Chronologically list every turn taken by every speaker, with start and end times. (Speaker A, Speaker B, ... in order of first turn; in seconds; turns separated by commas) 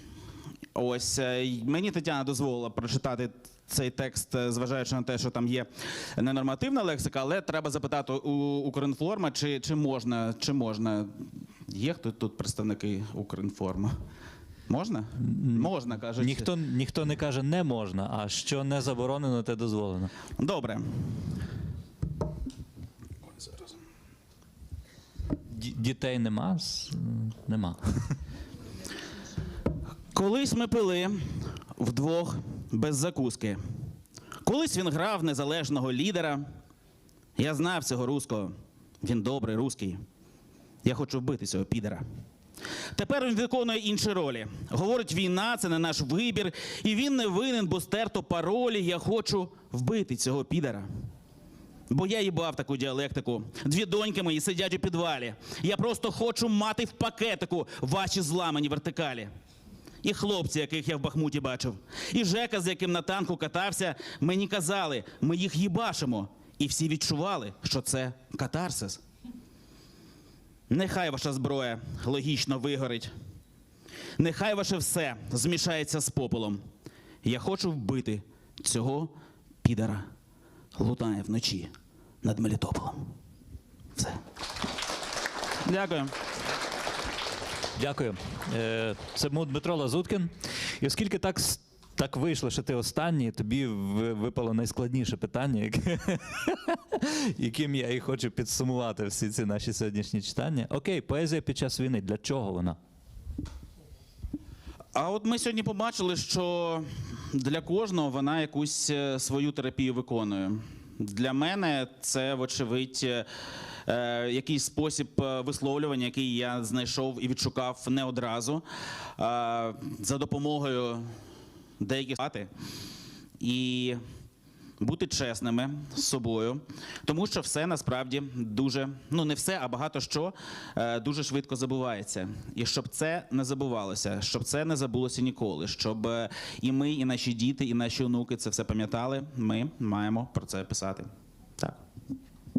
Speaker A: 0.7-13.9, Speaker A: 14.7-16.5, Speaker B: 15.2-20.1, Speaker A: 20.4-20.9, Speaker B: 25.5-27.8, Speaker A: 30.1-33.6, Speaker A: 34.4-36.4, Speaker A: 37.4-40.0, Speaker A: 40.8-42.0, Speaker A: 42.9-50.9, Speaker A: 51.9-59.3, Speaker A: 60.0-69.0, Speaker A: 70.7-73.1, Speaker A: 74.2-76.6, Speaker A: 77.2-80.0, Speaker A: 80.7-81.7, Speaker A: 82.2-83.0, Speaker A: 85.6-86.1, Speaker B: 87.8-102.8, Speaker A: 104.9-113.3, Speaker A: 113.8-118.6, Speaker A: 119.2-121.1, Speaker A: 121.8-122.5, Speaker A: 123.4-124.0, Speaker A: 124.8-141.1